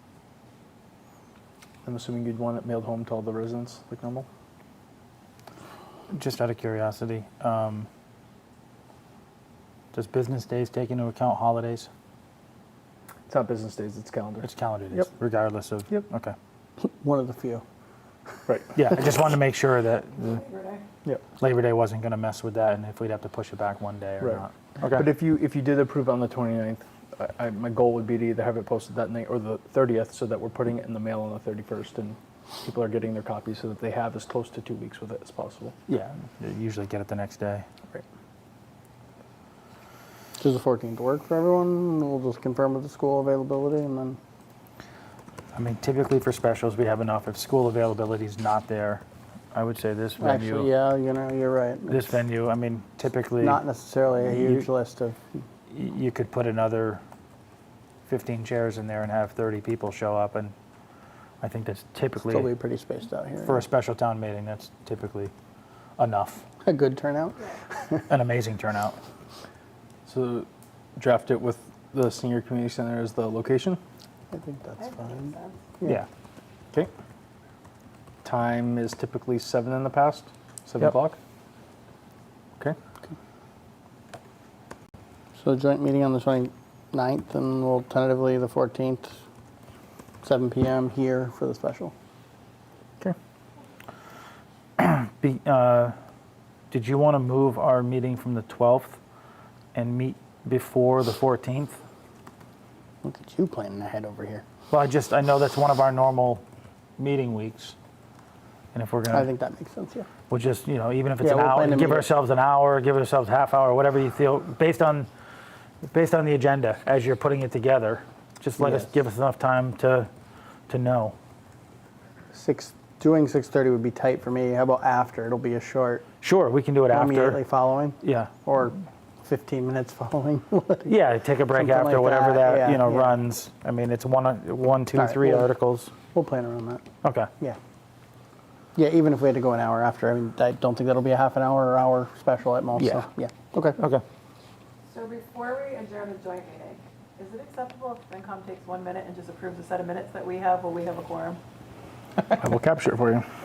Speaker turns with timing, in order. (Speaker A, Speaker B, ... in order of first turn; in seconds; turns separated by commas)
Speaker A: 1.8-4.3, Speaker B: 6.1-7.9, Speaker B: 9.9-11.9, Speaker A: 13.3-14.5, Speaker B: 14.4-16.3, Speaker C: 16.8-17.6, Speaker A: 18.5-18.7, Speaker B: 18.7-20.4, Speaker D: 20.2-20.8, Speaker B: 21.4-25.1, Speaker A: 24.2-35.8, Speaker B: 35.9-37.6, Speaker C: 40.4-44.2, Speaker B: 45.5-50.7, Speaker C: 50.2-52.2, Speaker B: 51.9-53.6, Speaker C: 53.4-55.2, Speaker B: 54.2-54.7, Speaker B: 55.7-57.0, Speaker B: 58.0-60.5, Speaker B: 61.4-62.5, Speaker C: 62.3-63.7, Speaker B: 63.4-65.3, Speaker B: 66.0-66.4, Speaker C: 66.6-68.0, Speaker B: 68.1-69.0, Speaker A: 70.0-73.8, Speaker C: 74.3-76.0, Speaker D: 74.8-75.6, Speaker A: 78.2-81.2, Speaker C: 85.3-89.2, Speaker C: 90.2-91.9, Speaker B: 94.8-95.9, Speaker B: 96.7-99.0, Speaker B: 99.7-101.8, Speaker C: 103.0-104.4, Speaker B: 104.7-106.4, Speaker B: 107.0-107.8, Speaker B: 108.7-109.3, Speaker C: 109.1-110.1, Speaker B: 110.3-115.1, Speaker C: 111.2-112.1, Speaker B: 115.8-120.1, Speaker C: 118.6-118.9, Speaker B: 120.7-121.2, Speaker C: 122.3-126.0, Speaker B: 126.2-127.4, Speaker C: 126.9-130.9, Speaker B: 128.0-128.3, Speaker B: 130.9-135.9, Speaker C: 131.5-133.2, Speaker C: 134.9-135.5, Speaker C: 136.1-136.8, Speaker B: 137.0-137.3, Speaker C: 138.8-143.8, Speaker D: 144.9-151.4, Speaker A: 152.3-153.2